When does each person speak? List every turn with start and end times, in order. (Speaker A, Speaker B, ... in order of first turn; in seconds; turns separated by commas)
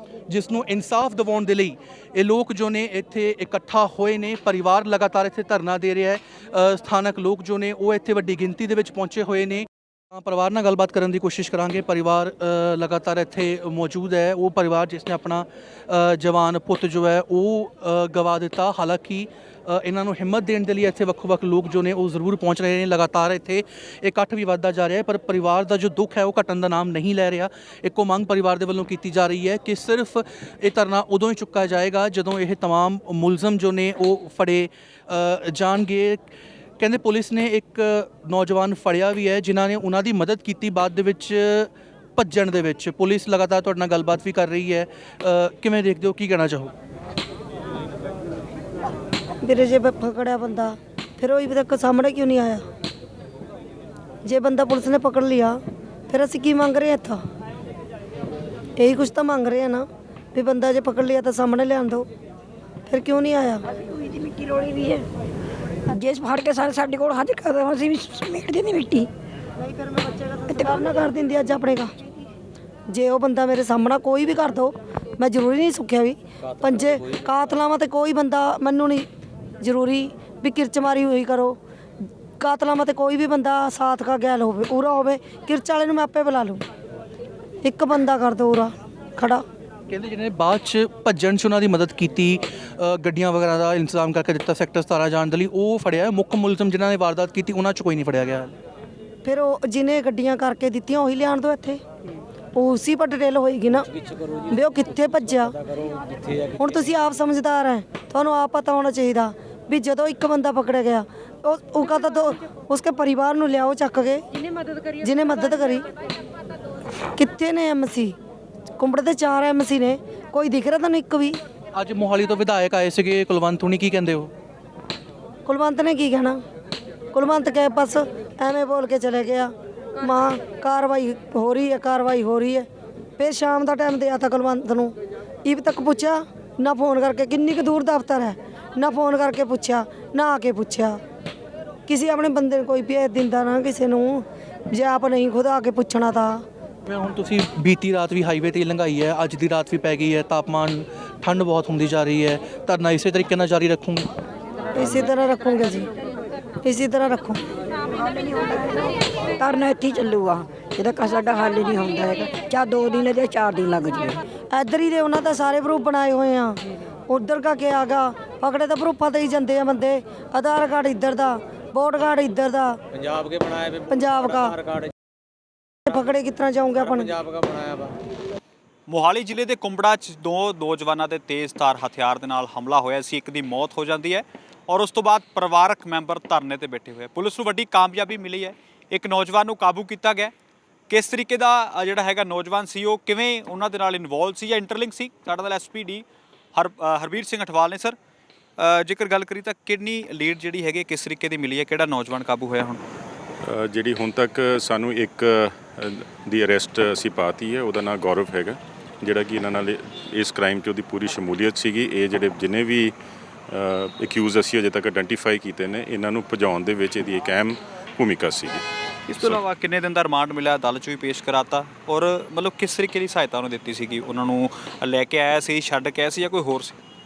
Speaker A: 0.3-36.2, Speaker A: 36.8-46.7, Speaker B: 49.4-52.6, Speaker B: 54.2-55.6, Speaker B: 56.1-57.2, Speaker B: 58.8-62.1, Speaker B: 62.9-63.6, Speaker C: 63.9-65.0, Speaker C: 65.9-69.1, Speaker B: 69.6-71.9, Speaker C: 70.5-70.8, Speaker B: 72.9-79.0, Speaker B: 79.6-81.6, Speaker B: 82.4-86.6, Speaker B: 87.6-89.4, Speaker A: 89.9-98.5, Speaker B: 99.2-101.8, Speaker B: 102.5-103.9, Speaker B: 104.5-105.5, Speaker B: 106.5-114.2, Speaker B: 115.0-115.8, Speaker B: 117.2-118.1, Speaker B: 118.8-121.4, Speaker A: 121.7-124.3, Speaker B: 125.5-126.4, Speaker B: 127.1-132.7, Speaker B: 133.2-134.9, Speaker B: 135.4-141.0, Speaker B: 141.9-146.4, Speaker A: 146.8-154.1, Speaker B: 154.7-155.9, Speaker B: 156.6-157.4, Speaker C: 157.9-164.2, Speaker B: 164.5-172.8, Speaker B: 173.9-174.6, Speaker B: 175.8-177.2, Speaker D: 178.9-190.3, Speaker D: 190.9-197.9, Speaker D: 198.6-202.8, Speaker E: 203.4-212.9, Speaker E: 213.5-218.6, Speaker D: 219.1-226.8, Speaker E: 219.2-219.4